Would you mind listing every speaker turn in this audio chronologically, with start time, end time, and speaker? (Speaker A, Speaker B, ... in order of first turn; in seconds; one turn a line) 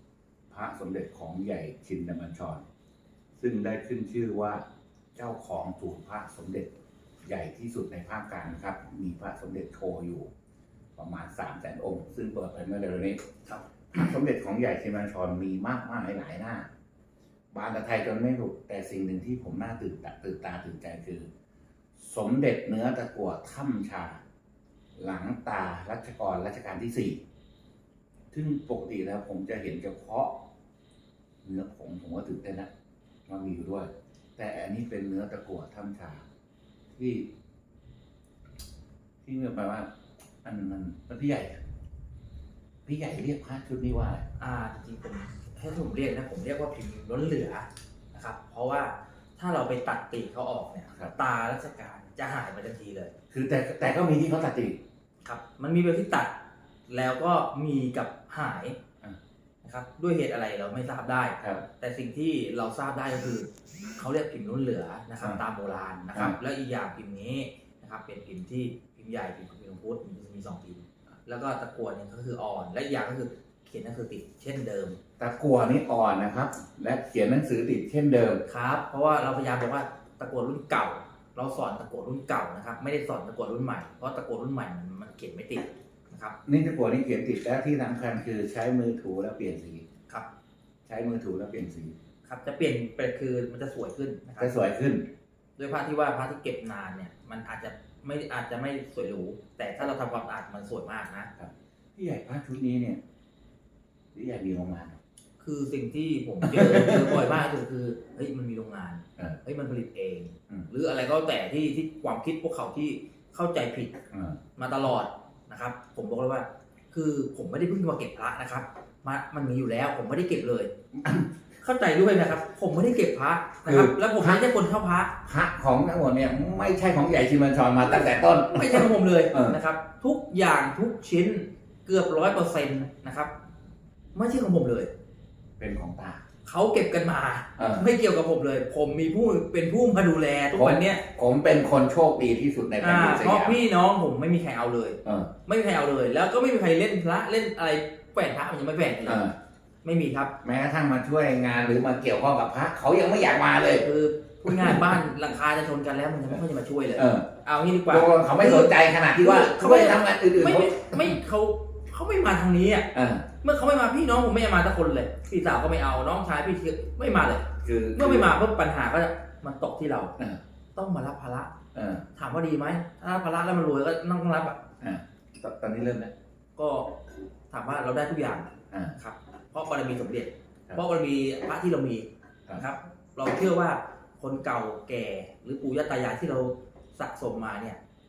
Speaker A: 0.5-2.6
Speaker A: 3.4-4.6
Speaker A: 5.2-6.7
Speaker A: 7.2-10.3
Speaker A: 11.0-13.2
Speaker A: 13.9-16.7
Speaker A: 17.5-21.3
Speaker A: 22.0-24.2
Speaker A: 25.0-27.2
Speaker A: 28.3-30.4
Speaker A: 31.4-32.7
Speaker A: 33.3-36.2
Speaker A: 37.0-37.3
Speaker A: 39.2-39.9
Speaker A: 40.4-41.6
Speaker A: 42.9-44.3
Speaker B: 44.4-53.1
Speaker A: 53.3-54.8
Speaker B: 55.2-56.3
Speaker B: 56.9-58.8
Speaker B: 59.6-75.0
Speaker A: 75.2-78.4
Speaker B: 78.5-86.4
Speaker A: 86.5-89.8
Speaker A: 90.9-92.0
Speaker B: 92.2-94.5
Speaker A: 94.4-95.0
Speaker B: 95.6-101.3
Speaker A: 101.4-103.0
Speaker A: 104.1-105.0
Speaker B: 105.4-114.0
Speaker A: 106.4-107.3
Speaker A: 114.1-114.4
Speaker B: 114.6-120.7
Speaker A: 120.9-121.3
Speaker B: 121.6-125.2
Speaker A: 123.6-124.4
Speaker A: 125.2-129.6
Speaker B: 128.5-133.3
Speaker B: 134.1-134.9
Speaker A: 135.6-136.2
Speaker B: 136.4-141.0
Speaker A: 137.6-137.9
Speaker A: 140.5-143.6
Speaker B: 142.8-149.3
Speaker A: 145.1-145.3
Speaker A: 149.1-149.3
Speaker B: 149.8-150.3
Speaker A: 150.4-153.9
Speaker B: 153.8-170.2
Speaker A: 154.4-155.0
Speaker A: 156.9-157.3
Speaker A: 157.9-161.2
Speaker A: 162.9-163.3
Speaker A: 167.6-168.4
Speaker B: 170.8-171.5
Speaker A: 171.7-172.0
Speaker B: 172.2-174.6
Speaker A: 174.8-176.1
Speaker B: 176.6-177.0
Speaker B: 177.5-187.8
Speaker A: 178.7-179.0